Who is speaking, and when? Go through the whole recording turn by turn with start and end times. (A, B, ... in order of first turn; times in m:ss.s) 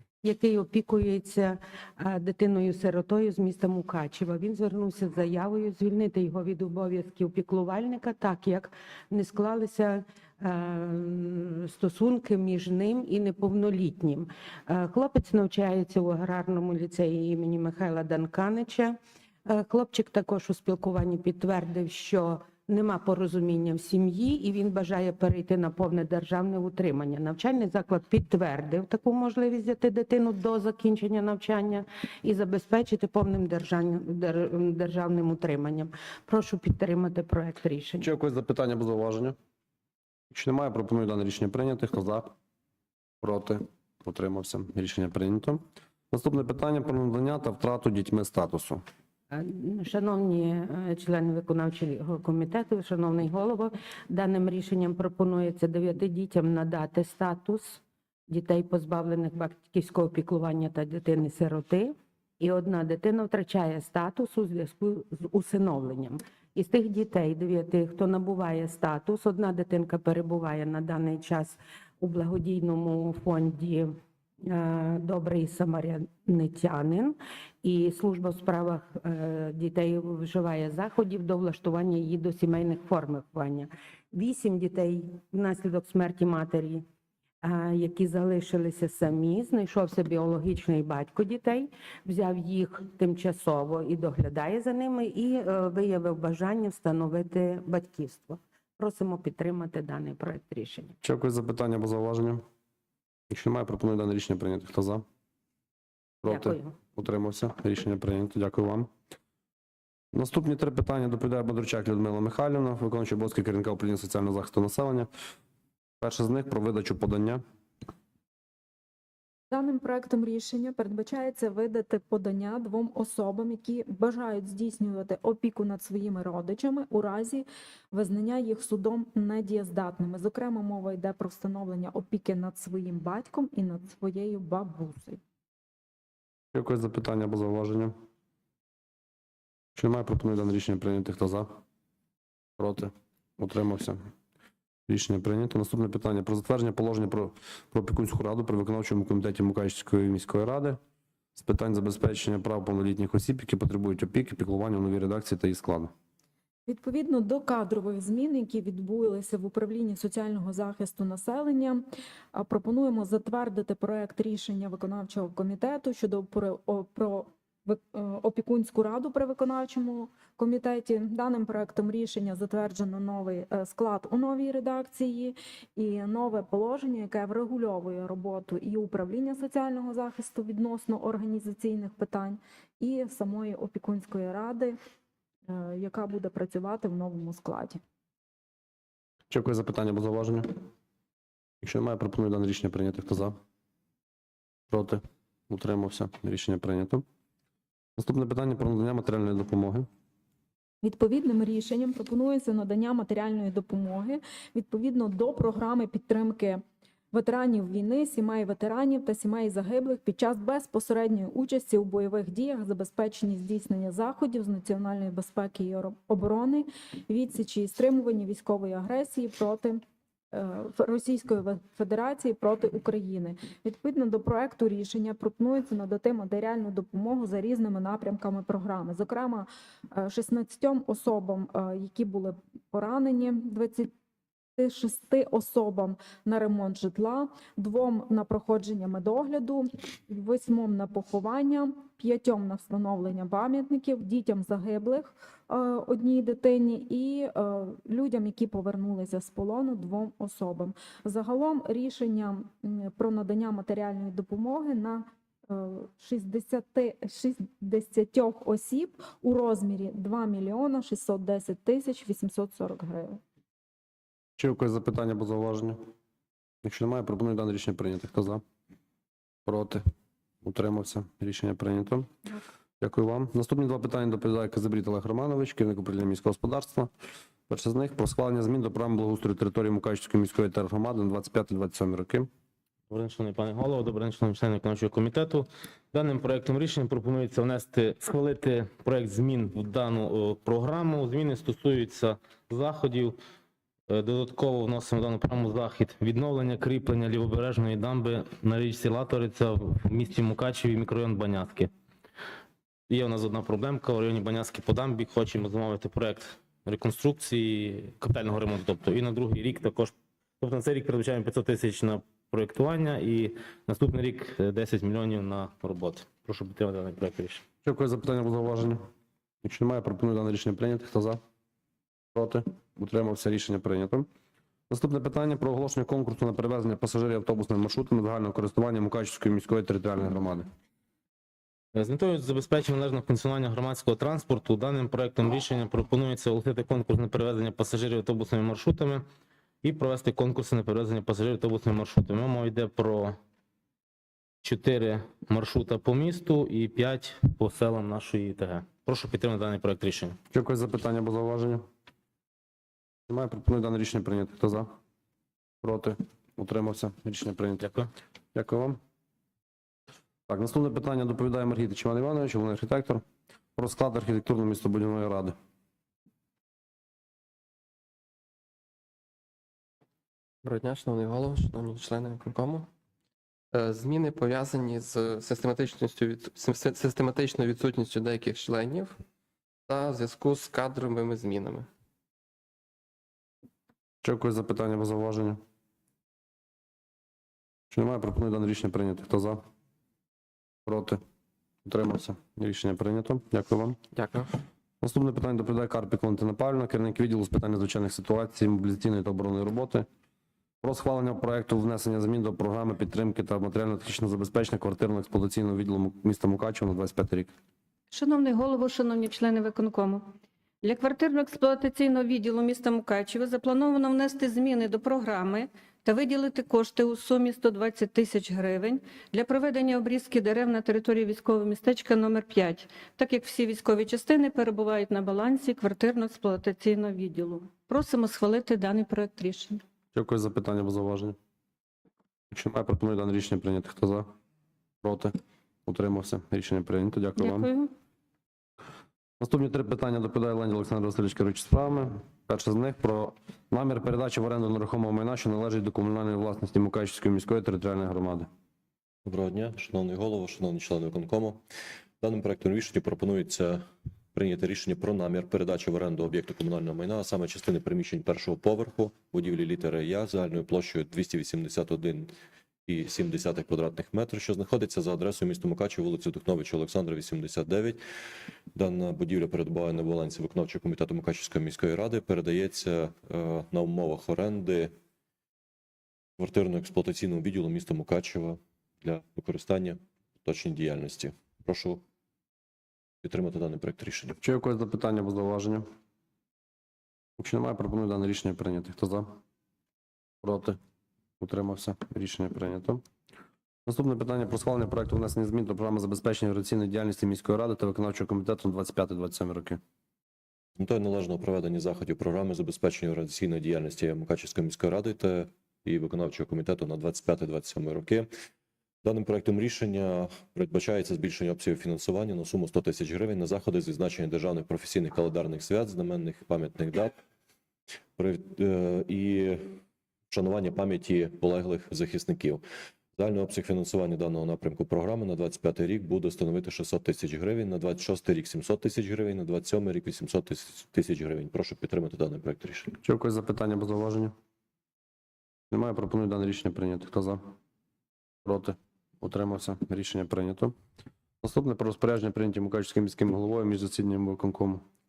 0:00.2-0:38.1 A
0:38.0-0:39.4 B
0:40.3-0:42.3 B
0:43.2-0:48.8 B
0:49.3-1:13.9 A
1:14.4-1:26.8 A
1:27.4-1:40.9 A
1:41.0-1:42.4 B
1:43.3-1:45.0 B
1:46.2-1:48.9 B
1:46.2-1:46.7 A
1:50.1-1:55.1 B
1:56.0-1:57.4 B
1:59.5-2:15.2 C
2:16.5-2:17.9 B
2:19.8-2:21.5 B
2:22.6-2:24.0 B
2:24.9-2:30.8 B
2:31.3-2:35.9 B
2:36.7-2:41.8 C
2:42.3-3:04.8 C
3:05.5-3:07.8 C
3:09.3-3:10.5 B
3:11.6-3:13.4 B
3:14.7-3:17.0 B
3:18.0-3:19.8 B
3:20.8-3:39.8 C
3:40.3-3:53.9 C
3:54.6-4:23.2 C
4:24.4-4:25.8 B
4:26.6-4:28.4 B
4:29.4-4:29.8 B
4:30.4-4:32.1 B
4:32.8-4:36.9 B
4:37.5-4:42.3 B
4:42.9-4:53.2 D
4:53.9-5:01.7 D
5:02.9-5:17.4 D
5:17.6-5:18.8 B
5:19.4-5:21.2 B
5:22.1-5:24.1 B
5:24.7-5:30.4 B
5:31.7-5:39.0 D
5:39.6-5:43.2 D
5:44.4-5:50.2 D
5:50.3-5:51.6 B
5:53.1-5:54.7 B
5:55.6-5:57.7 B
5:57.6-5:57.8 D
5:58.3-5:58.8 B
6:00.3-6:03.0 B
6:03.6-6:05.3 B
6:10.4-6:12.7 E
6:13.5-6:19.0 E
6:19.7-6:21.7 E
6:24.0-6:25.4 B
6:27.7-6:29.4 B
6:30.6-6:31.0 B
6:31.6-6:33.8 B
6:33.9-6:34.3 E
6:34.8-6:39.9 B
6:40.6-6:47.3 B
6:47.9-6:50.0 F
6:50.6-7:09.6 F
7:09.9-7:11.2 B
7:12.3-7:14.1 B
7:14.8-7:15.1 B
7:15.7-7:17.5 B
7:17.2-7:17.7 F
7:19.2-7:28.3 B
7:29.0-7:31.4 G
7:32.0-7:33.6 G
7:34.1-7:42.1 G
7:42.7-7:47.8 G
7:48.5-7:54.7 G
7:56.2-8:01.8 G
8:03.0-8:04.2 G
8:04.2-8:05.6 B
8:07.2-8:09.1 B
8:10.2-8:10.6 B
8:11.2-8:12.8 B
8:13.6-8:19.6 B
8:20.6-8:28.1 G
8:28.8-8:36.9 G
8:38.0-8:39.6 G
8:40.1-8:42.4 G
8:43.0-8:52.7 G
8:52.8-8:54.1 B
8:55.5-8:57.2 B
8:58.2-9:00.5 B
9:01.2-9:04.6 B